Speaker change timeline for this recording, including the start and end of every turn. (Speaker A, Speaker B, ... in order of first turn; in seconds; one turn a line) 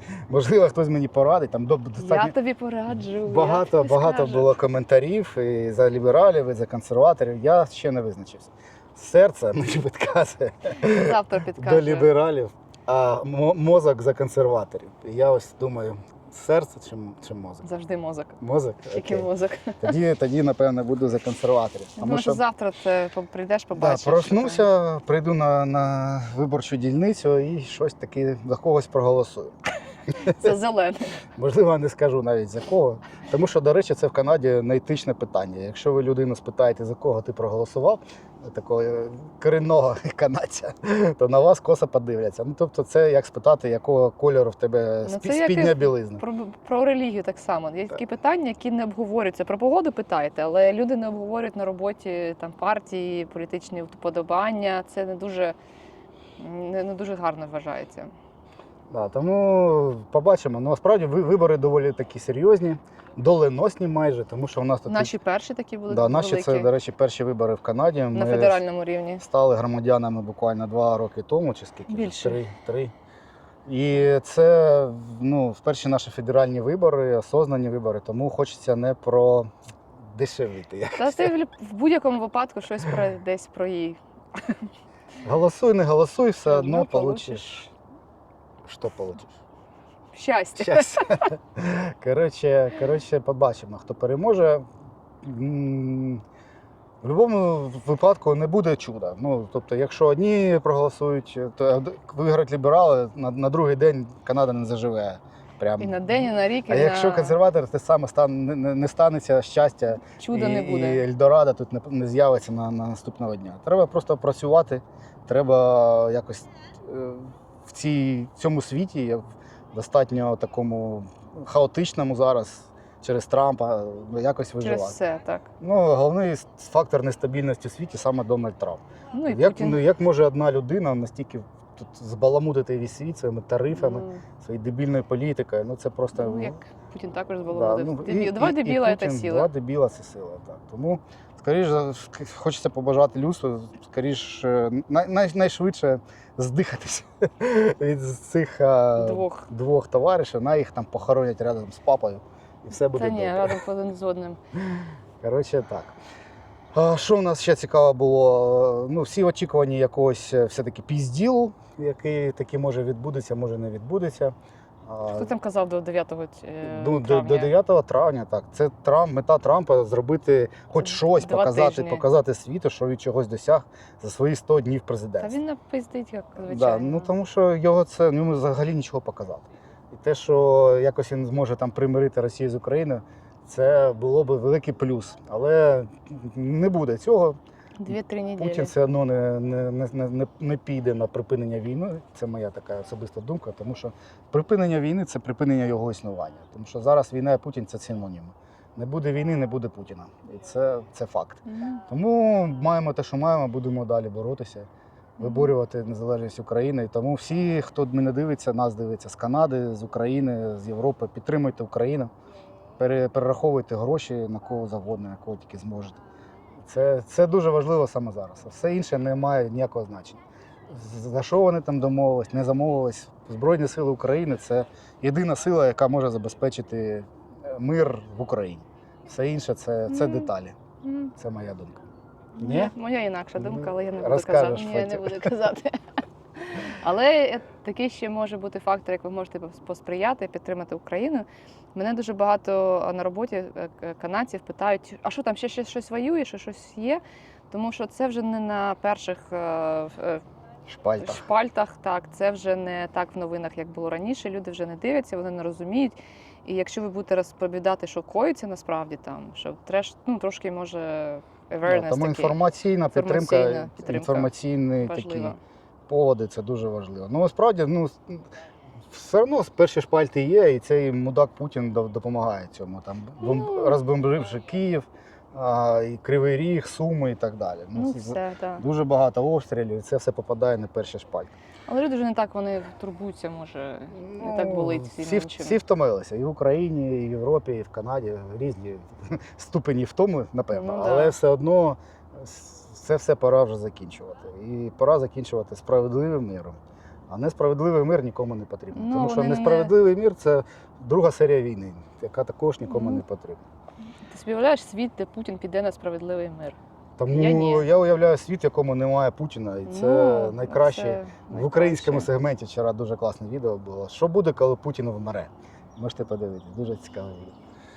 Speaker A: 0.3-2.3
Speaker B: 2.0-4.5
Speaker A: 3.2-17.7
Speaker B: 10.8-12.1
Speaker B: 17.6-18.4
Speaker A: 18.4-19.3
Speaker B: 18.9-20.0
Speaker A: 19.8-22.4
Speaker B: 22.0-24.6
Speaker A: 23.7-29.5
Speaker A: 30.1-30.6
Speaker B: 30.3-31.1
Speaker A: 31.4-46.2
Speaker B: 45.0-55.5
Speaker B: 56.4-58.1
Speaker A: 58.9-65.1
Speaker B: 64.9-66.7
Speaker A: 65.9-68.6
Speaker B: 68.1-69.2
Speaker A: 69.2-72.9
Speaker B: 71.9-72.4
Speaker A: 73.7-79.5
Speaker A: 80.1-81.3
Speaker B: 81.0-84.7
Speaker A: 85.2-87.7
Speaker B: 86.5-87.4
Speaker A: 88.6-89.4
Speaker B: 90.1-91.2
Speaker A: 90.6-94.6
Speaker A: 95.2-96.2
Speaker A: 97.0-125.0
Speaker B: 105.8-107.4
Speaker B: 110.2-111.0
Speaker B: 124.6-125.5
Speaker A: 125.6-136.6
Speaker B: 129.1-129.8
Speaker B: 133.7-134.2
Speaker B: 136.1-139.5
Speaker A: 137.5-153.6
Speaker B: 148.9-149.5
Speaker B: 152.9-154.4
Speaker A: 154.6-155.9
Speaker A: 156.7-164.3
Speaker A: 164.8-165.3
Speaker B: 165.1-167.5
Speaker A: 166.6-175.4
Speaker B: 170.9-172.1
Speaker B: 175.2-177.1
Speaker A: 176.4-187.4
Speaker B: 187.8-188.7
Speaker A: 187.9-204.7
Speaker B: 201.4-201.8
Speaker B: 205.2-205.5
Speaker A: 205.2-212.1
Speaker A: 212.8-216.0
Speaker A: 216.6-230.6
Speaker B: 229.9-230.3
Speaker B: 230.8-231.1
Speaker A: 231.2-231.8
Speaker A: 232.4-232.7
Speaker B: 232.4-235.8
Speaker A: 233.4-235.3
Speaker B: 236.3-250.2
Speaker A: 250.7-251.2
Speaker B: 251.0-262.4
Speaker A: 261.6-265.3
Speaker B: 262.9-264.3
Speaker B: 264.8-265.4
Speaker A: 265.9-268.2
Speaker A: 268.9-281.3
Speaker B: 273.2-273.7
Speaker B: 277.7-278.6
Speaker B: 281.7-285.6
Speaker A: 283.9-303.4
Speaker B: 290.5-291.1
Speaker B: 298.7-299.7
Speaker B: 302.7-303.0
Speaker B: 304.1-306.6
Speaker A: 307.0-317.3
Speaker B: 307.1-307.7
Speaker B: 309.6-312.1